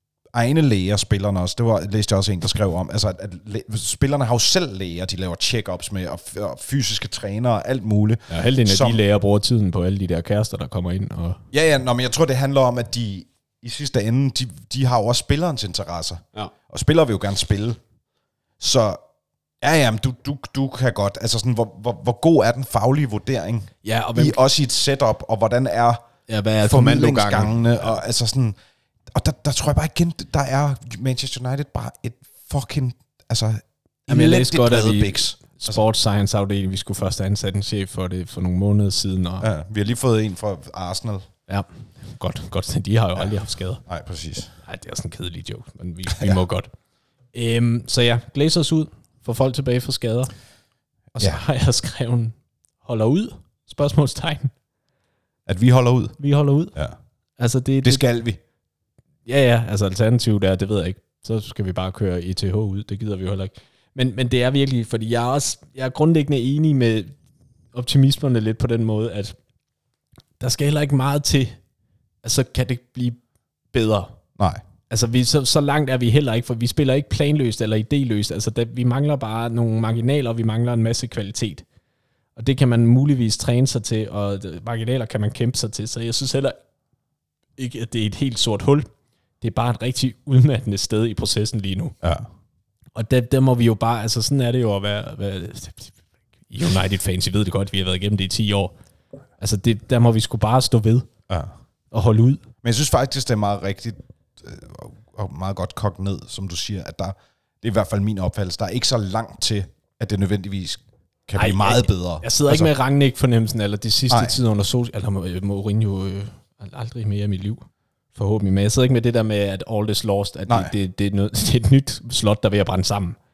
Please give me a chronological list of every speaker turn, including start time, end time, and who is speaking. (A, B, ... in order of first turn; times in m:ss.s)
0:00.3-0:09.0 A
0:08.3-0:11.4 B
0:11.5-0:17.8 A
0:18.6-0:19.0 A
0:19.6-0:26.0 A
0:23.8-0:24.4 B
0:26.3-0:27.9 B
0:26.6-0:28.6 A
0:29.1-0:35.8 A
0:34.1-0:39.5 B
0:39.4-0:41.3 A
0:41.5-0:43.8 B
0:43.9-0:44.5 A
0:44.6-0:46.7 B
0:47.3-0:50.3 B
0:51.2-0:54.5 B
0:55.5-0:56.2 A
0:56.2-0:56.8 B
0:57.4-0:58.0 B
0:57.8-0:58.4 A
0:59.3-1:07.2 B
1:07.7-1:09.4 B
1:10.4-1:11.6 B
1:12.2-1:13.2 B
1:13.7-1:14.2 B
1:14.9-1:21.6 B
1:22.4-1:26.6 B
1:27.6-1:28.9 B
1:29.4-1:32.0 B
1:32.0-1:32.3 A
1:33.0-1:36.0 B
1:36.5-1:38.7 B
1:39.4-1:41.1 B
1:41.9-1:42.4 B
1:42.6-1:52.7 A
1:51.4-2:03.2 B
1:54.1-1:54.4 A
2:00.5-2:00.7 A